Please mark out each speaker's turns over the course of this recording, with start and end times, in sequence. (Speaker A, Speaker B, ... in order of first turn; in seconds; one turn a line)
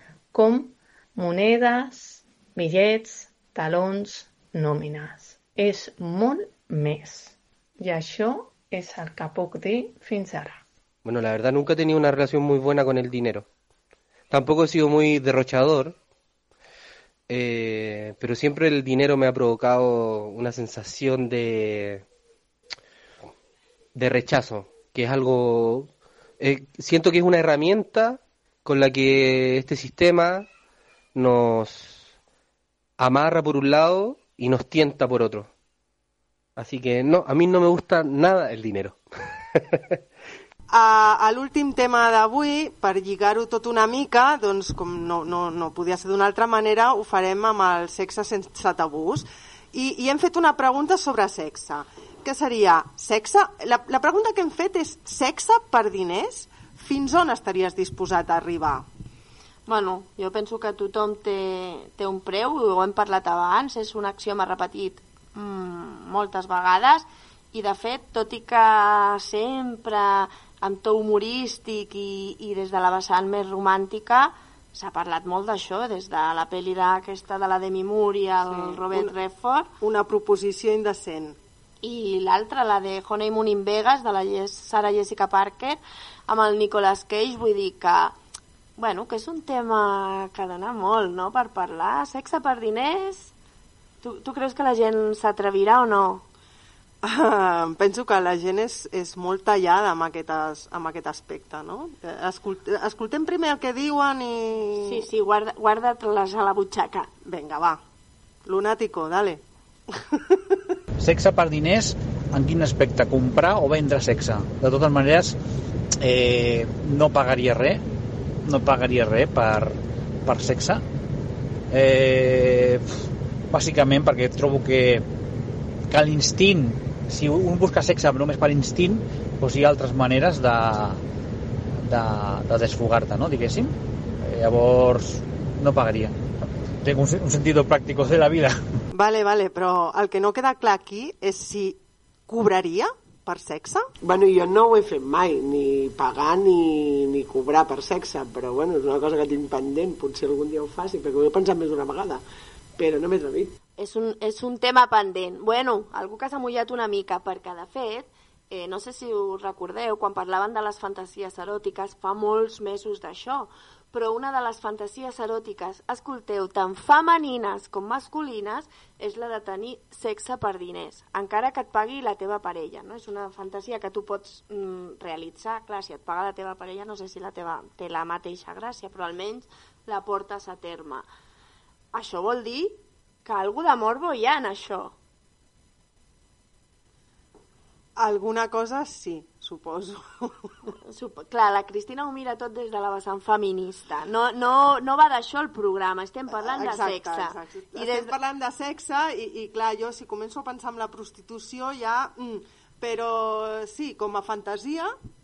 Speaker A: 0.3-10.6
Speaker B: 11.1-13.5
Speaker B: 14.3-16.0
Speaker B: 17.3-22.1
Speaker B: 23.9-25.9
Speaker B: 26.4-30.5
Speaker B: 31.1-32.1
Speaker B: 33.0-35.5
Speaker B: 36.6-39.0
Speaker B: 39.5-39.8
Speaker C: 40.7-58.8
Speaker D: 59.7-79.7
Speaker C: 78.5-79.1
Speaker C: 79.8-81.4
Speaker D: 81.8-88.2
Speaker D: 88.8-93.3
Speaker D: 94.0-96.2
Speaker C: 97.0-105.0
Speaker D: 104.8-107.1
Speaker C: 107.2-107.8
Speaker C: 108.5-109.4
Speaker C: 109.9-110.4
Speaker E: 111.0-115.4
Speaker E: 116.0-117.8
Speaker E: 118.4-120.8
Speaker E: 121.7-125.0
Speaker E: 125.9-131.0
Speaker E: 131.8-136.2
Speaker E: 136.8-138.6
Speaker C: 138.9-143.9
Speaker F: 144.0-152.2
Speaker F: 152.8-153.5
Speaker D: 153.8-181.1
Speaker D: 181.9-184.9
Speaker C: 188.0-190.5
Speaker D: 190.8-198.1
Speaker C: 196.3-204.9